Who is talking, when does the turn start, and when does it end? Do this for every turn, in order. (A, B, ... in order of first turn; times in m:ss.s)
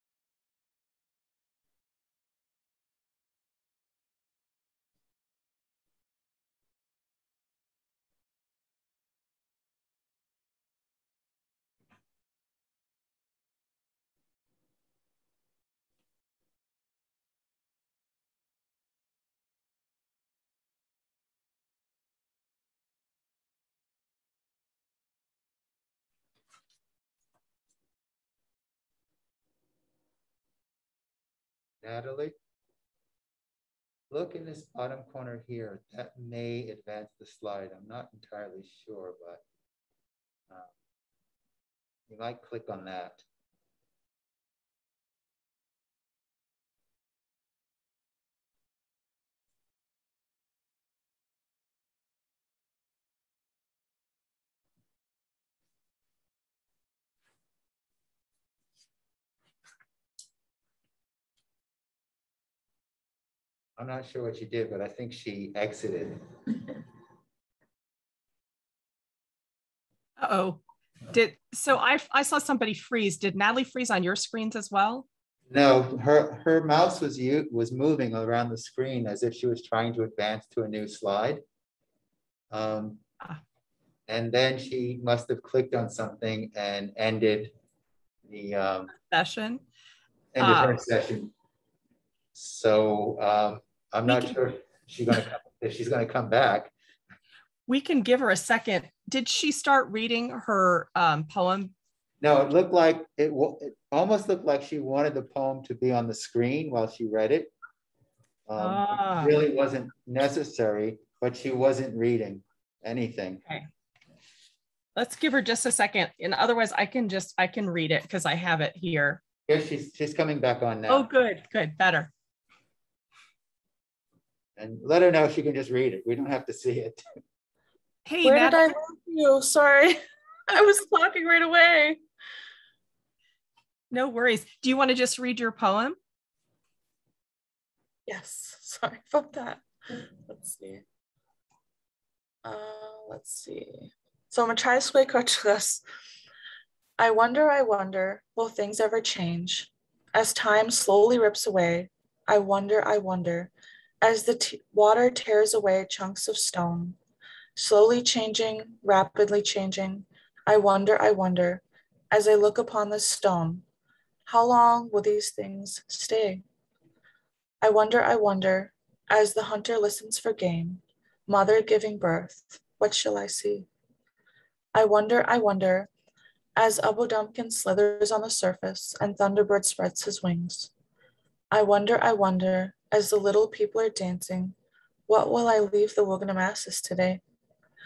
0:31.8-0:32.3 A
0:34.1-0:39.4 A
0:42.1-0:43.2 A
1:03.8-1:06.2 A
1:10.2-1:15.0 B
1:15.5-1:21.4 A
1:22.5-1:23.0 A
1:24.1-1:27.5 A
1:28.3-1:28.9 A
1:28.9-1:29.6 B
1:30.3-1:31.3 A
1:30.4-1:30.8 B
1:32.3-1:36.7 A
1:34.1-1:34.4 B
1:37.7-1:41.7 B
1:42.2-1:47.5 A
1:48.5-1:53.4 A
1:48.6-1:49.4 B
1:55.0-1:59.2 B
1:59.5-2:01.1 A
2:00.9-2:02.1 B
2:04.6-2:07.0 A
2:08.0-2:08.7 B
2:08.2-2:12.0 C
2:13.9-2:16.0 B
2:18.1-2:20.8 C
2:22.4-2:25.8 C
2:27.0-2:33.5 C
2:34.0-2:37.0 C
2:37.6-2:43.6 C
2:44.2-2:46.4 C
2:47.6-2:53.7 C
2:54.7-2:55.9 C
2:56.6-3:00.7 C
3:01.5-3:04.5 C
3:05.1-3:07.2 C